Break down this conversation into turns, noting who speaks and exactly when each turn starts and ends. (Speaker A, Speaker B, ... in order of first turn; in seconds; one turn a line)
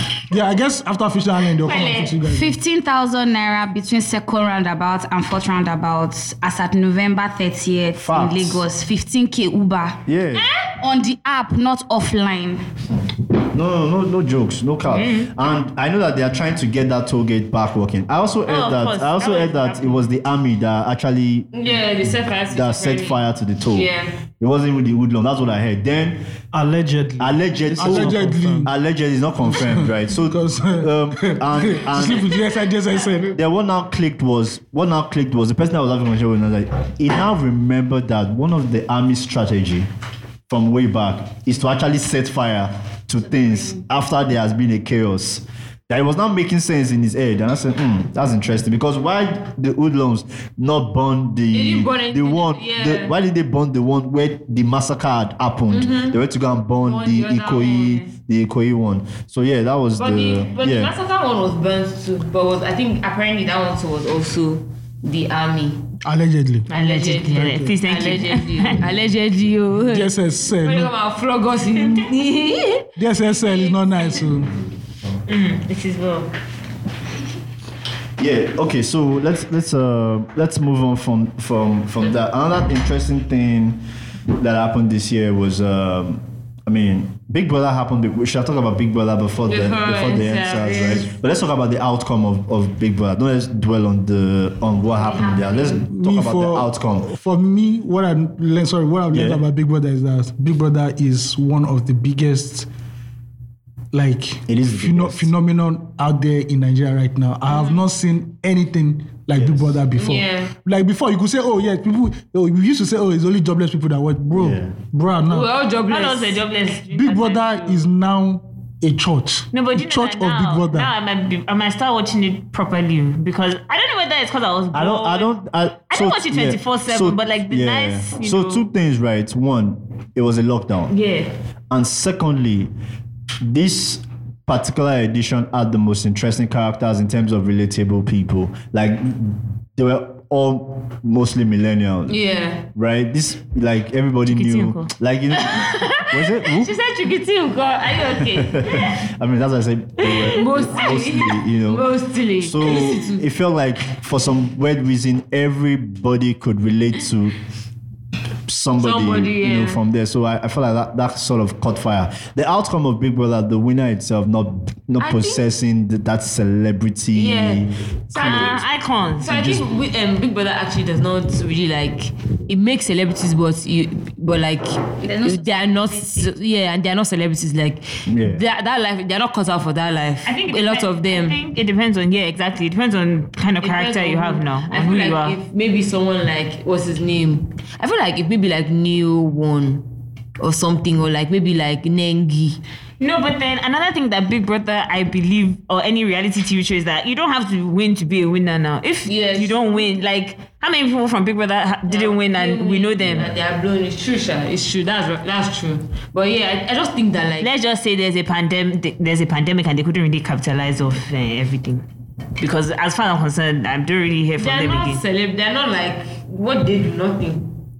Speaker A: 0.3-2.5
Speaker B: 1.6-2.0
Speaker C: 2.2-10.0
Speaker D: 8.0-8.6
Speaker D: 10.1-10.5
Speaker C: 10.8-12.6
Speaker D: 13.5-21.5
Speaker B: 14.9-15.3
Speaker B: 18.4-20.1
Speaker E: 21.5-24.1
Speaker D: 22.5-26.2
Speaker F: 26.5-28.7
Speaker D: 27.2-32.4
Speaker A: 27.8-28.7
Speaker A: 29.4-33.4
Speaker D: 33.3-39.9
Speaker D: 40.5-60.9
Speaker E: 51.5-53.1
Speaker E: 55.7-56.2
Speaker E: 56.8-58.0
Speaker E: 60.0-65.8
Speaker A: 66.0-66.7
Speaker B: 66.7-68.8
Speaker E: 66.7-72.9
Speaker A: 67.4-67.7
Speaker A: 69.9-70.9
Speaker A: 73.0-74.5
Speaker B: 75.3-76.3
Speaker D: 78.2-83.8
Speaker D: 84.3-97.1
Speaker E: 89.5-91.1
Speaker C: 95.0-95.8
Speaker A: 95.8-102.7
Speaker D: 99.1-99.4
Speaker A: 103.9-115.5
Speaker D: 104.5-105.3
Speaker E: 107.5-107.8
Speaker D: 109.3-109.8
Speaker E: 109.9-110.5
Speaker D: 114.3-114.8
Speaker E: 115.2-116.4
Speaker B: 115.9-117.8
Speaker A: 116.9-120.9
Speaker B: 119.5-125.3
Speaker D: 124.7-130.9
Speaker B: 125.9-128.7
Speaker B: 130.9-131.3
Speaker D: 131.7-132.7
Speaker D: 133.4-142.2
Speaker E: 142.1-142.6
Speaker D: 142.7-146.7
Speaker B: 144.2-144.9
Speaker B: 146.6-148.9
Speaker D: 148.2-157.3
Speaker E: 150.3-153.2
Speaker D: 158.5-168.6
Speaker E: 158.8-159.8
Speaker E: 165.0-165.4
Speaker E: 167.1-168.6
Speaker B: 168.1-169.3
Speaker E: 169.2-181.4
Speaker D: 169.2-169.6
Speaker C: 175.0-176.3
Speaker D: 178.1-178.4
Speaker B: 180.2-185.4
Speaker E: 183.6-189.8
Speaker E: 190.4-192.6
Speaker B: 193.0-203.3
Speaker E: 199.1-199.9
Speaker E: 201.9-207.5
Speaker B: 207.4-211.8
Speaker B: 212.4-215.0
Speaker E: 214.4-217.5